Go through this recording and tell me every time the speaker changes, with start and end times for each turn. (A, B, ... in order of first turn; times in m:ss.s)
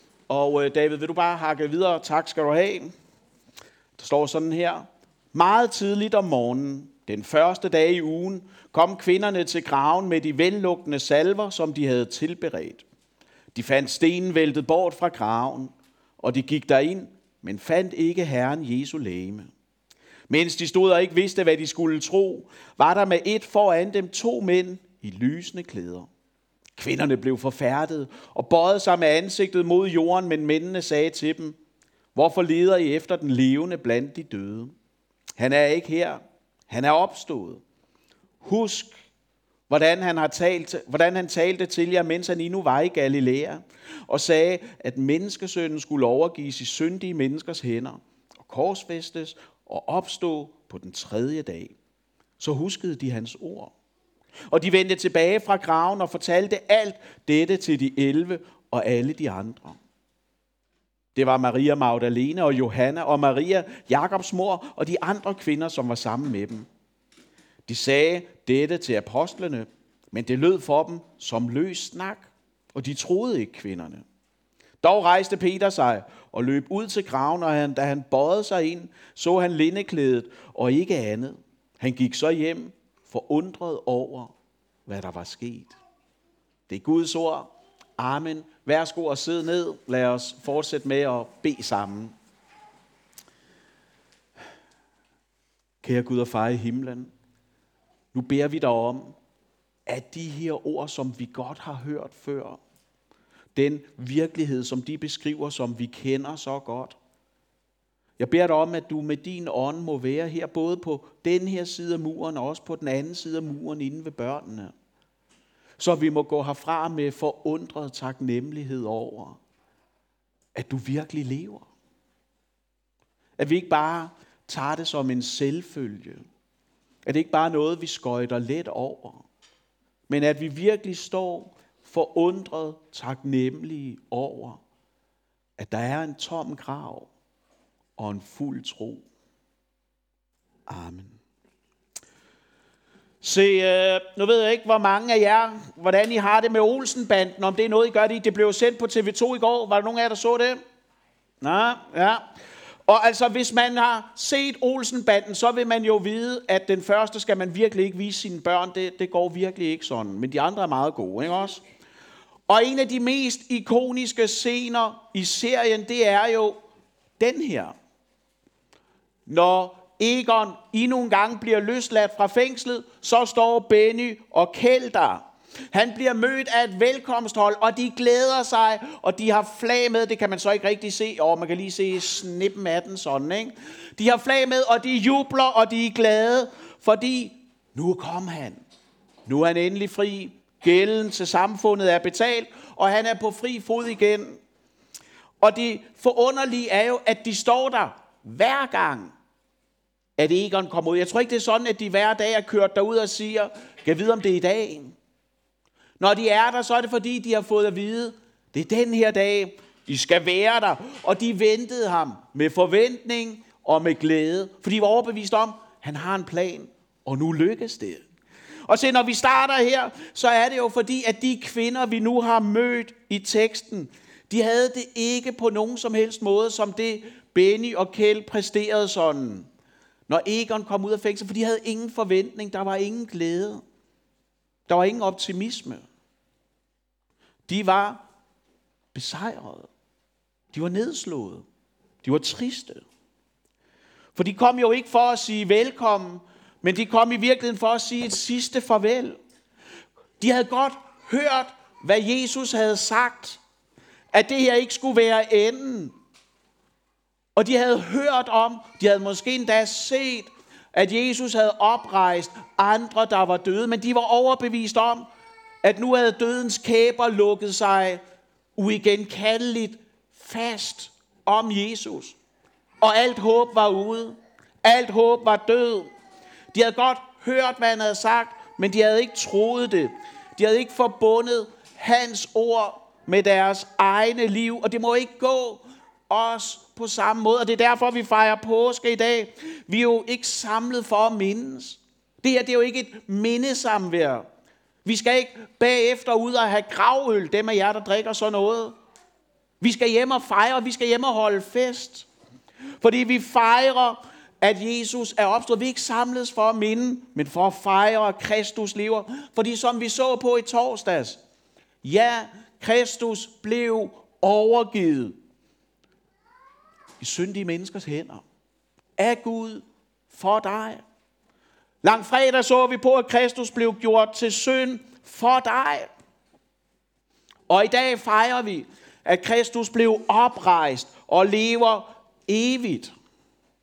0:00.3-0:02.9 A
0:04.0-0:12.8 A
0:13.5-0:19.5 A
0:20.3-0:26.1 A
0:26.8-0:31.6 A
0:32.1-0:34.7 A
0:35.4-0:37.6 A
0:38.4-0:38.9 A
0:39.7-0:51.7 A
0:52.4-0:53.7 A
0:54.5-0:59.8 A
1:01.1-1:06.7 A
1:07.7-1:14.0 A
1:14.8-1:24.3 A
1:24.8-1:25.8 A
1:26.7-1:32.1 A
1:35.8-1:37.1 A
1:38.1-1:39.2 A
1:39.8-1:42.6 A
1:43.5-1:47.0 A
1:48.2-1:54.7 A
1:55.8-1:59.4 A
2:00.5-2:01.6 A
2:03.4-2:06.2 A
2:07.0-2:09.2 A
2:10.1-2:14.6 A
2:15.6-2:17.1 A
2:18.0-2:19.0 A
2:20.7-2:21.2 A
2:23.2-2:30.6 A
2:31.4-2:32.2 A
2:32.9-2:41.6 A
2:42.5-2:46.6 A
2:47.2-2:47.7 A
2:49.3-3:08.6 A
3:09.2-3:14.4 A
3:15.4-3:19.1 A
3:20.2-3:25.0 A
3:26.0-3:38.0 A
3:38.7-3:49.5 A
3:50.1-3:53.6 A
3:54.7-3:55.8 A
3:57.5-3:58.0 A
3:58.9-3:59.7 A
4:00.5-4:01.4 A
4:02.0-4:02.8 A
4:04.2-4:09.2 A
4:10.2-4:13.4 A
4:14.1-4:15.9 A
4:17.4-4:25.1 A
4:25.6-4:28.0 A
4:28.6-4:32.2 A
4:32.8-4:35.9 A
4:36.5-4:54.3 A
4:54.8-4:58.8 A
4:59.6-5:02.1 A
5:02.8-5:11.2 A
5:11.8-5:15.2 A
5:17.0-5:18.2 A
5:19.0-5:20.8 A
5:21.8-5:25.9 A
5:27.5-5:32.9 A